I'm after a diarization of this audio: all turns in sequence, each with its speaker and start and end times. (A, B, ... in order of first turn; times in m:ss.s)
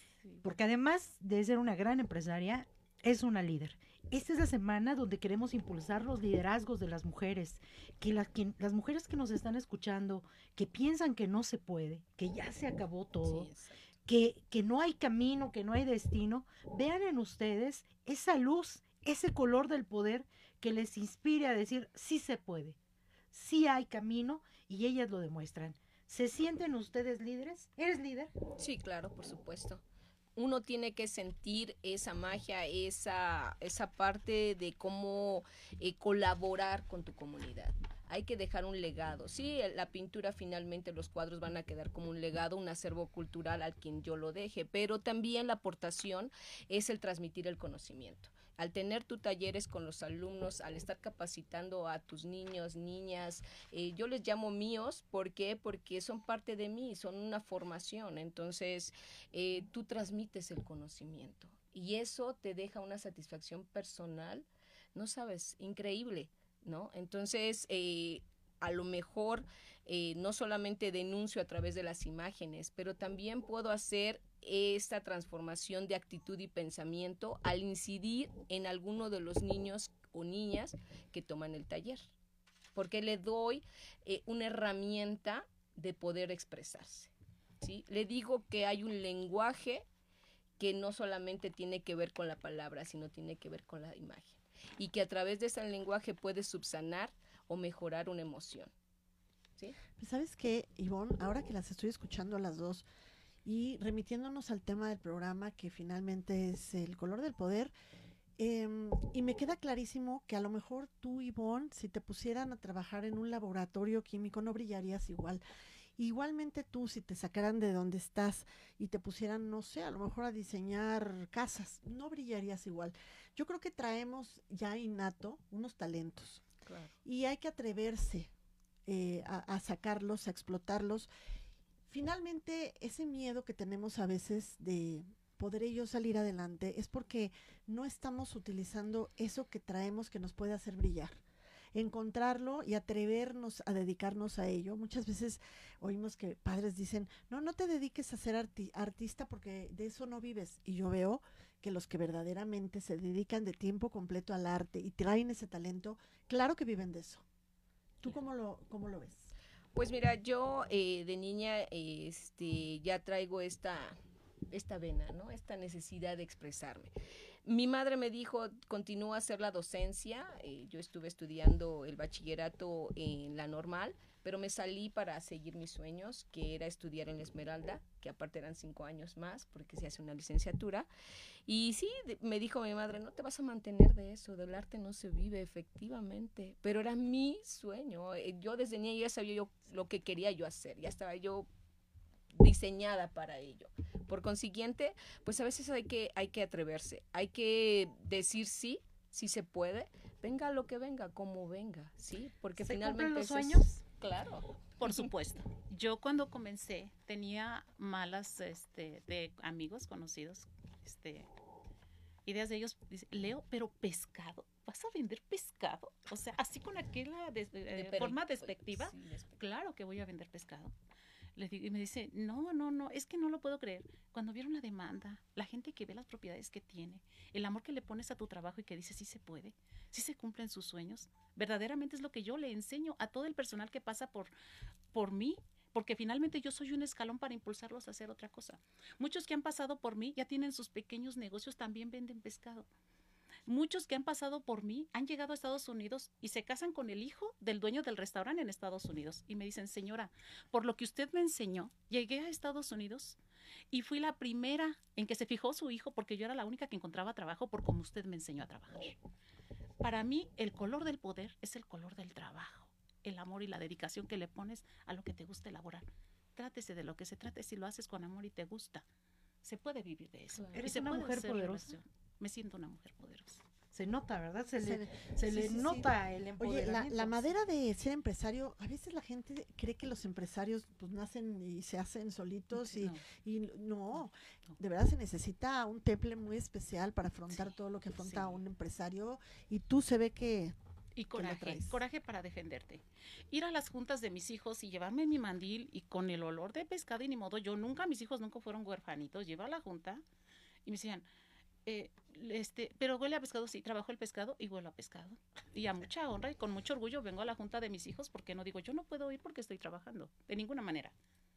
0:00.2-0:00.6 A
0:00.4-0:13.5 B
0:13.2-0:13.8 C
0:14.1-0:22.8 B
0:23.3-0:28.3 B
0:28.6-0:29.8 C
0:30.4-1:22.1 C
1:22.8-1:29.8 C
1:30.6-1:38.7 C
1:40.0-1:42.8 D
1:43.4-1:47.7 D
1:48.4-1:55.4 D
1:56.0-2:06.4 D
2:06.7-2:06.9 C
2:07.0-2:08.3 D
2:08.9-2:11.1 D
2:11.9-2:21.2 D
2:21.7-2:37.2 D
2:38.0-2:39.3 D
2:39.8-2:44.0 C
2:44.5-2:46.9 C
2:47.4-3:00.9 C
3:01.5-3:11.5 C
3:12.3-3:25.1 C
3:22.6-3:23.8 B
3:24.8-3:31.3 A
3:32.3-3:40.7 A
3:37.7-3:39.4 C
3:41.4-3:54.3 A
3:54.9-4:02.7 A
4:03.5-4:13.2 A
4:13.7-4:19.0 A
4:19.8-4:28.8 A
4:29.4-4:33.4 A
4:30.4-4:30.9 C
4:30.5-4:31.7 B
4:33.7-4:37.3 B
4:34.6-4:50.6 D
4:42.5-4:43.0 A
4:48.0-4:48.4 A
4:51.0-5:00.0 A
4:51.1-4:51.8 D
5:00.7-5:01.1 A
5:01.7-5:11.0 A